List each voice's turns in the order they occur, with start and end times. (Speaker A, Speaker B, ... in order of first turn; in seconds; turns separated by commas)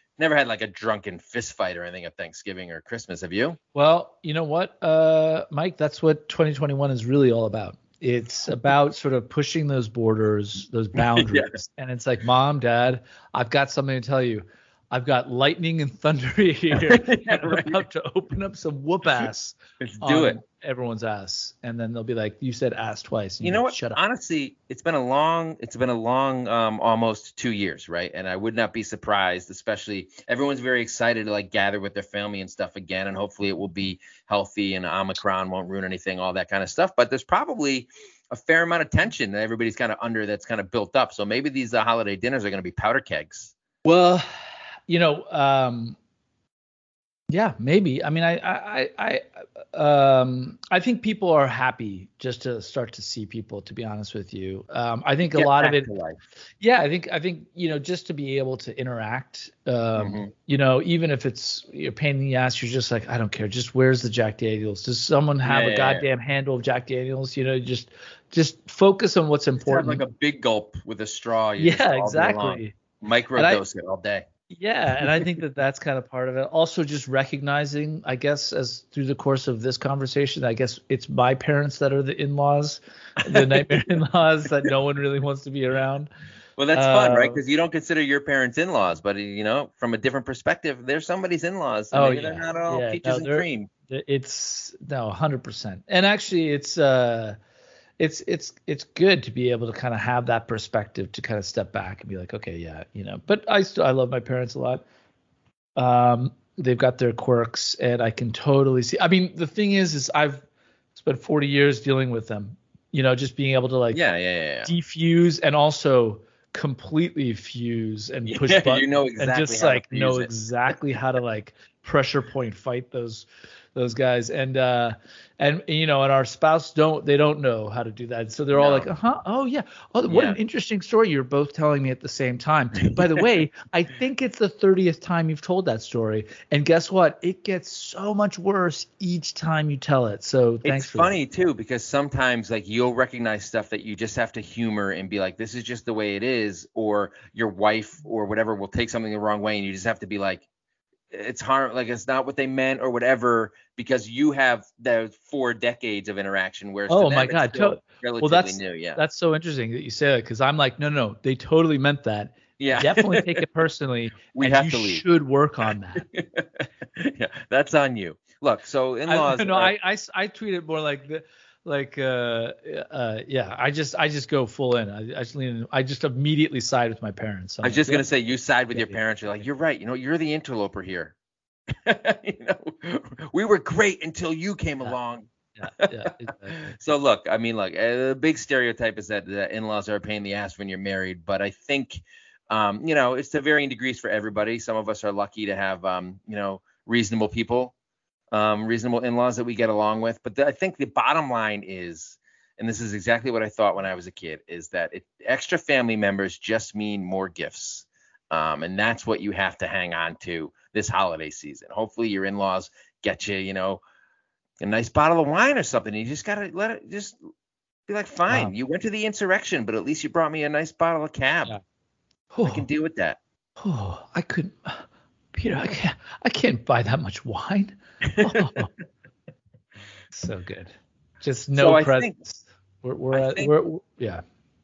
Speaker A: 0.2-3.6, Speaker B: 3.7-24.0, Speaker A: 11.0-11.6, Speaker A: 16.7-17.8, Speaker A: 19.8-20.4, Speaker A: 23.4-43.5, Speaker B: 43.8-46.0, Speaker B: 47.3-55.9, Speaker A: 55.3-56.2, Speaker B: 56.6-70.0, Speaker A: 60.0-60.3, Speaker A: 65.4-66.0, Speaker A: 69.6-74.2, Speaker B: 71.6-72.7, Speaker B: 73.3-73.6, Speaker B: 74.5-86.1, Speaker A: 75.0-75.3, Speaker A: 83.2-83.9, Speaker A: 86.6-93.7, Speaker B: 86.7-87.4, Speaker B: 91.9-97.4, Speaker B: 98.0-104.8, Speaker B: 105.8-110.4, Speaker B: 110.9-114.0, Speaker A: 113.9-114.7, Speaker B: 114.7-141.1, Speaker A: 118.3-120.3, Speaker A: 128.5-128.9, Speaker A: 130.1-130.4, Speaker A: 140.6-150.4, Speaker A: 151.1-159.0, Speaker B: 156.9-166.1, Speaker A: 162.6-163.4, Speaker A: 164.3-165.0, Speaker A: 166.0-169.7, Speaker B: 169.1-178.1, Speaker A: 177.6-181.2, Speaker B: 178.7-179.0, Speaker A: 181.7-197.7, Speaker B: 185.6-186.8, Speaker A: 198.3-213.8, Speaker A: 214.6-217.2, Speaker A: 217.9-221.6, Speaker B: 222.3-222.7, Speaker A: 222.4-223.2, Speaker B: 223.6-228.7, Speaker A: 228.0-228.6, Speaker B: 230.1-234.2, Speaker A: 231.6-232.2, Speaker A: 233.1-233.5